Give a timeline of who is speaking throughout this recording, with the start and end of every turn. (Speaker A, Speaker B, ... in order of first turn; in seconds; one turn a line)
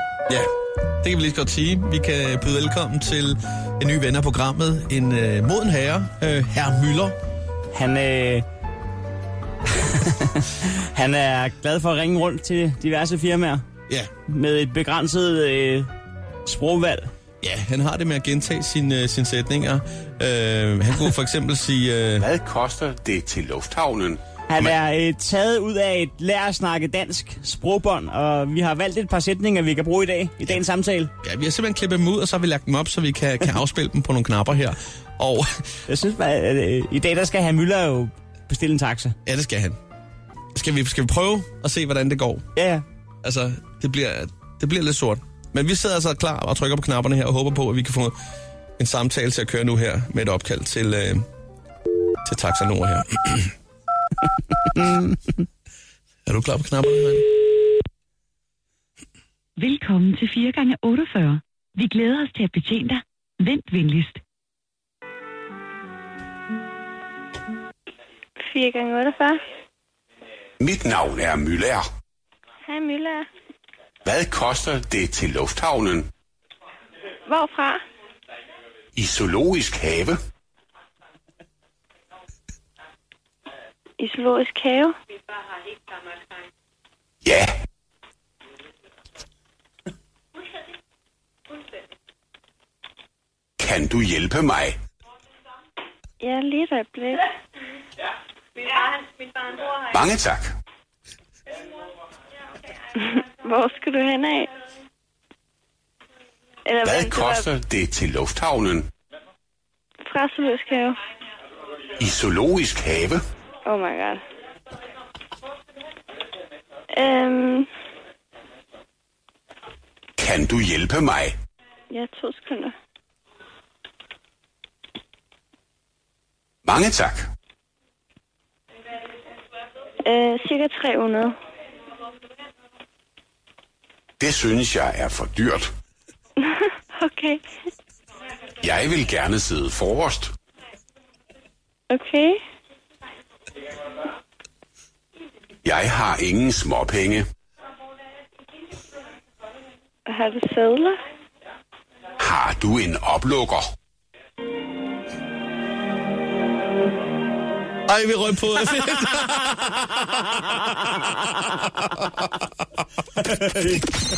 Speaker A: 1.0-7.2
Speaker B: 7.7-8.4
Speaker B: 9.8-13.7
Speaker B: 14.3-15.9
Speaker B: 16.4-17.1
Speaker A: 17.4-22.3
Speaker C: 22.2-24.2
Speaker B: 24.5-31.1
Speaker A: 31.2-35.5
Speaker B: 35.9-39.1
Speaker A: 39.2-39.8
Speaker A: 40.5-42.5
Speaker B: 42.5-42.8
Speaker A: 43.2-48.1
Speaker A: 48.8-51.2
Speaker A: 52.2-53.5
Speaker A: 56.2-57.2
Speaker D: 59.6-64.2
Speaker E: 68.4-69.4
Speaker C: 70.6-71.8
Speaker E: 72.6-73.3
Speaker C: 74.0-76.1
Speaker E: 77.3-77.8
Speaker C: 79.0-80.2
Speaker E: 84.0-84.9
Speaker C: 87.2-87.5
Speaker C: 93.6-94.8
Speaker E: 96.2-97.2
Speaker C: 99.7-100.5
Speaker E: 103.0-104.5
Speaker E: 106.7-107.5
Speaker C: 106.8-108.9
Speaker E: 110.0-111.0
Speaker C: 112.0-113.2
Speaker E: 113.6-114.2
Speaker E: 116.9-117.7
Speaker C: 120.2-121.3
Speaker E: 121.9-122.7
Speaker C: 126.6-127.3
Speaker E: 130.0-131.3
Speaker C: 134.2-135.7
Speaker E: 136.4-137.4
Speaker C: 138.6-140.3
Speaker E: 141.9-142.4
Speaker C: 145.6-147.2
Speaker E: 150.1-151.0
Speaker C: 152.2-153.7
Speaker A: 157.9-159.8
Speaker B: 163.2-163.8